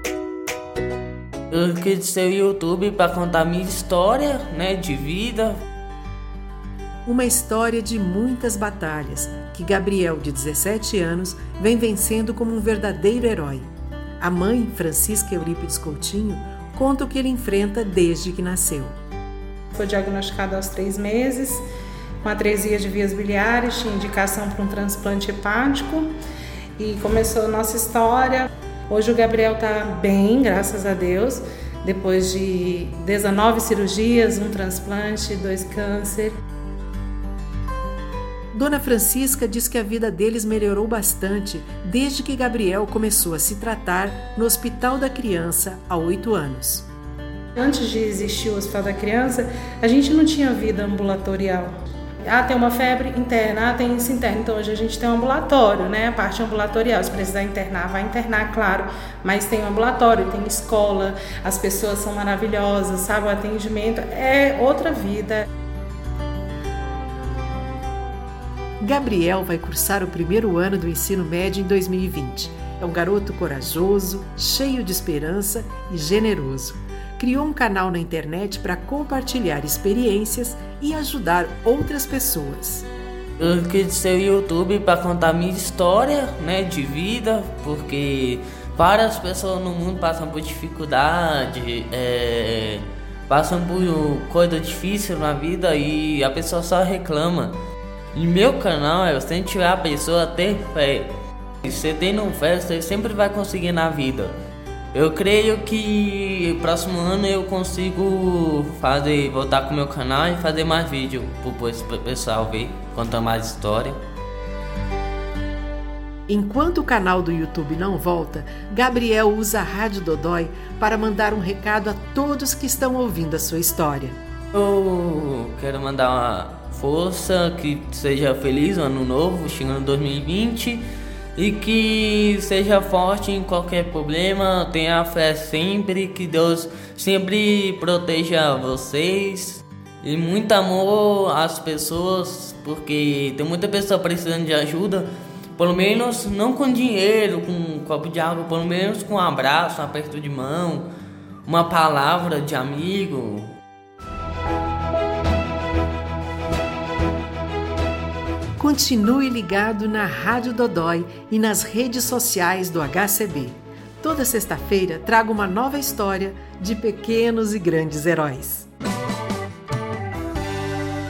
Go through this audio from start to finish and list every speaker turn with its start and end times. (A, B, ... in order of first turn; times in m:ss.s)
0:01.5-0:05.6 A
0:07.0-0:13.7 B
0:14.2-0:19.0 B
0:19.7-0:21.6 C
0:22.2-0:26.1 C
0:26.8-0:36.3 C
0:38.5-0:46.9 B
0:47.6-0:51.7 C
0:52.2-1:05.4 C
1:08.8-1:22.9 B
1:23.4-1:37.5 A
1:38.1-1:41.1 A
1:41.6-1:44.3 A
1:44.9-1:54.0 A
1:56.3-2:04.2 B
2:04.5-2:10.8 A
2:11.4-2:30.8 A
2:31.4-2:33.5 A
2:38.6-2:48.7 B